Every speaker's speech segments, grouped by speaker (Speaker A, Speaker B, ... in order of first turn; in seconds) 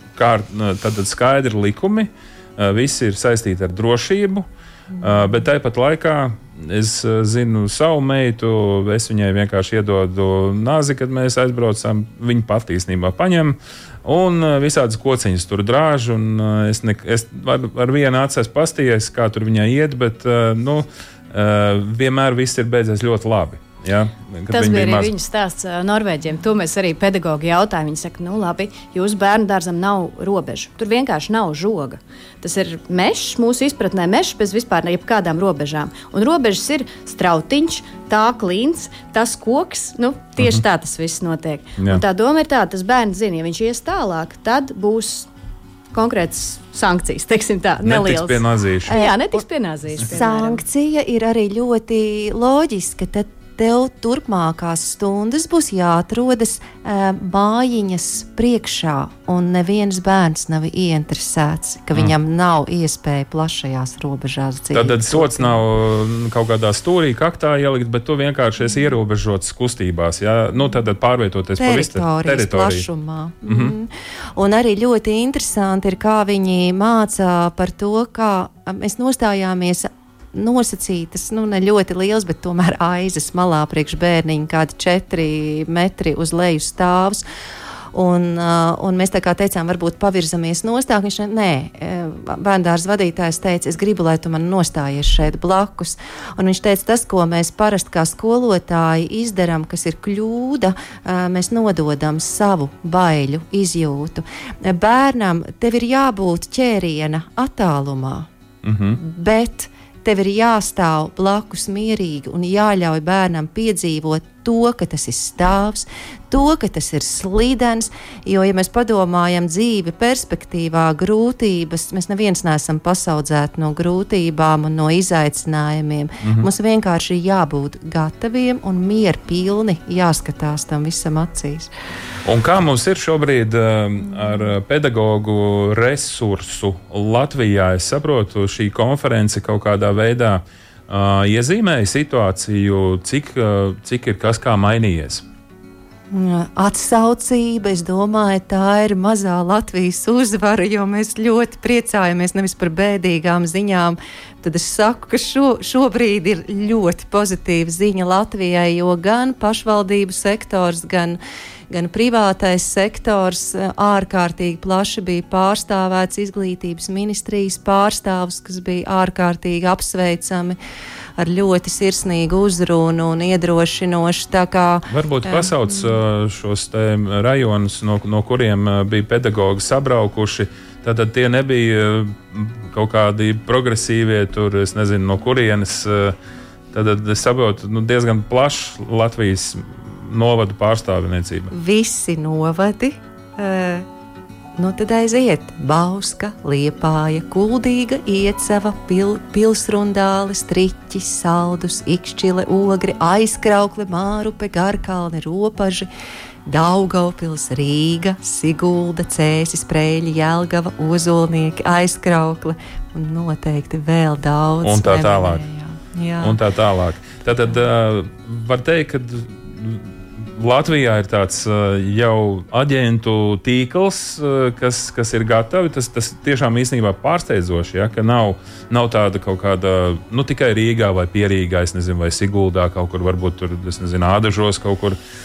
Speaker A: 0.1-4.4, 5.0-25.1, 47.8-49.0, 64.7-72.8, 73.5-73.7, 108.6-109.0, 126.2-126.5, 132.2-145.2, 174.9-186.1, 186.7-191.5, 214.6-215.4, 216.2-219.8, 220.4-235.0
Speaker B: 24.5-45.3, 45.9-50.6
Speaker C: 48.9-49.2, 50.0-65.5, 71.6-87.2, 87.9-108.3, 109.0-131.7, 146.1-161.2, 161.7-170.6, 171.2-175.5, 191.5-193.8, 194.6-205.9, 206.4-216.4